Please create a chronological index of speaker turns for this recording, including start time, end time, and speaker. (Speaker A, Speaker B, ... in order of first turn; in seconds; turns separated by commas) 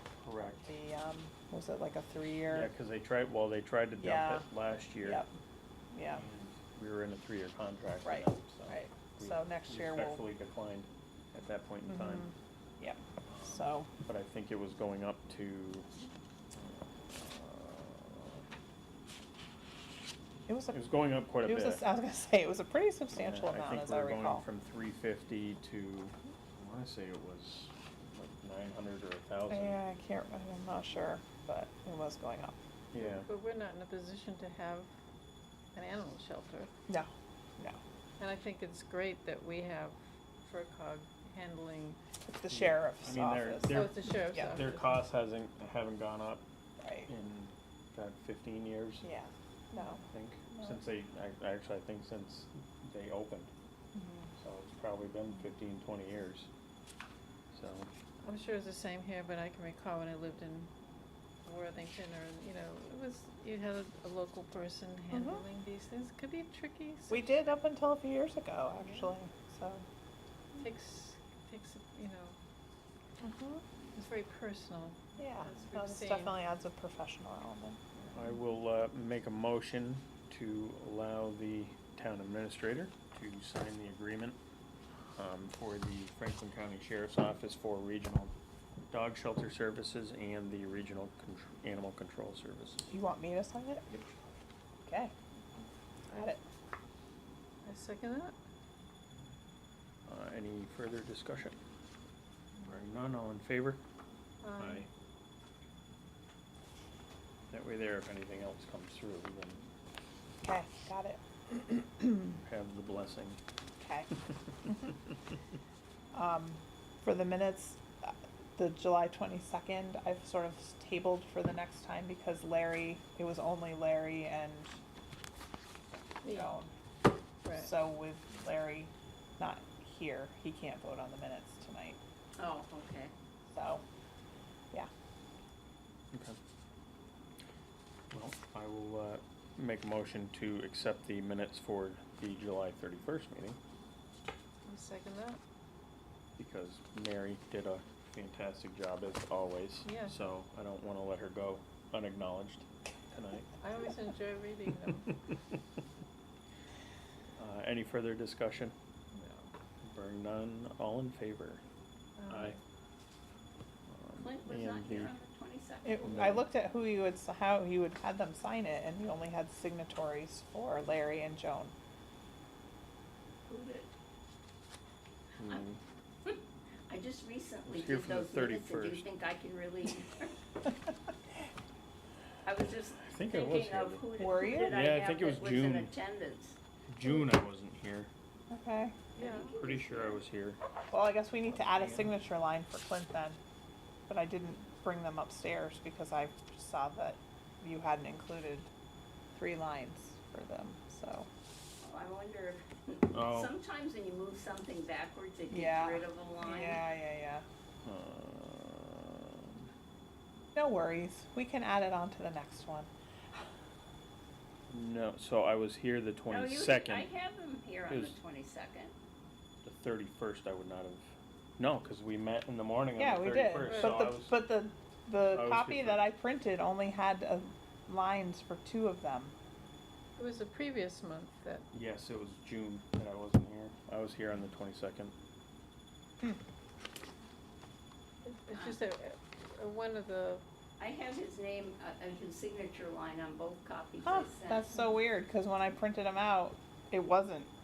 Speaker A: 0.2-0.8, Speaker B: 0.7-2.7, Speaker A: 2.5-5.3, Speaker B: 4.0-4.5, Speaker B: 5.0-5.3, Speaker B: 5.9-6.2, Speaker A: 6.1-12.3, Speaker B: 8.0-10.2, Speaker B: 11.9-13.9, Speaker A: 13.2-15.9, Speaker A: 16.5-18.4, Speaker B: 20.5-20.8, Speaker A: 20.7-21.8, Speaker B: 21.4-24.5, Speaker A: 23.1-29.8, Speaker B: 29.5-32.6, Speaker A: 32.9-33.3, Speaker C: 33.0-34.9, Speaker C: 35.7-36.7, Speaker B: 36.9-37.8, Speaker C: 38.2-42.0, Speaker B: 42.2-44.6, Speaker A: 42.5-46.5, Speaker C: 43.7-45.0, Speaker B: 46.8-47.1, Speaker A: 47.1-49.1, Speaker B: 49.0-50.8, Speaker A: 50.0-53.5, Speaker B: 53.9-54.3, Speaker A: 54.4-56.5, Speaker A: 57.5-57.9, Speaker C: 58.2-60.7, Speaker C: 61.4-67.3, Speaker B: 65.1-65.4, Speaker B: 67.1-69.8, Speaker C: 68.8-69.1, Speaker C: 70.5-72.4, Speaker B: 73.2-73.6, Speaker C: 74.0-76.4, Speaker B: 75.2-77.8, Speaker A: 78.1-84.4, Speaker A: 85.1-88.3, Speaker A: 88.9-92.9, Speaker B: 92.9-93.9, Speaker B: 94.9-95.1, Speaker B: 96.1-96.4, Speaker C: 97.6-98.4, Speaker A: 100.1-101.6, Speaker A: 102.6-103.8, Speaker C: 104.4-104.9, Speaker A: 104.6-104.9, Speaker A: 107.5-109.7, Speaker B: 110.4-112.4, Speaker A: 112.3-113.4, Speaker B: 113.8-114.1, Speaker B: 116.1-124.8, Speaker C: 126.2-126.6, Speaker B: 126.2-126.7, Speaker C: 127.4-127.7, Speaker B: 127.5-132.0, Speaker D: 132.4-133.1, Speaker B: 133.5-133.8, Speaker A: 136.1-136.4, Speaker A: 138.1-143.6, Speaker C: 144.7-145.4, Speaker A: 146.4-153.5, Speaker C: 149.8-150.2, Speaker C: 153.6-155.2, Speaker A: 157.4-158.8, Speaker C: 159.1-159.5, Speaker A: 159.8-161.6, Speaker C: 162.2-162.6, Speaker A: 162.3-162.6, Speaker A: 163.9-165.1, Speaker D: 164.2-166.2, Speaker B: 165.8-171.7, Speaker A: 166.1-166.4, Speaker D: 173.5-173.9, Speaker A: 175.4-175.8, Speaker D: 176.2-180.4, Speaker A: 177.7-179.1, Speaker D: 182.4-186.6, Speaker A: 183.0-184.1, Speaker B: 184.2-184.8, Speaker A: 184.7-185.9, Speaker A: 186.9-188.1, Speaker B: 188.5-189.0, Speaker D: 189.2-190.2, Speaker C: 189.2-189.5, Speaker A: 189.6-190.6, Speaker B: 190.9-193.4, Speaker A: 191.5-192.2, Speaker B: 194.1-198.7, Speaker B: 199.3-201.3, Speaker D: 201.8-206.8, Speaker A: 203.1-203.5, Speaker B: 205.5-207.4, Speaker A: 207.8-209.7, Speaker B: 210.6-212.9, Speaker A: 214.7-217.1, Speaker D: 216.3-218.9, Speaker A: 217.9-218.2, Speaker A: 219.6-224.4, Speaker B: 223.0-229.3, Speaker C: 223.6-224.0, Speaker A: 225.3-226.1, Speaker C: 230.2-231.7, Speaker A: 231.7-235.1, Speaker C: 238.2-240.4, Speaker D: 238.5-238.8, Speaker D: 240.8-244.7, Speaker B: 244.0-247.5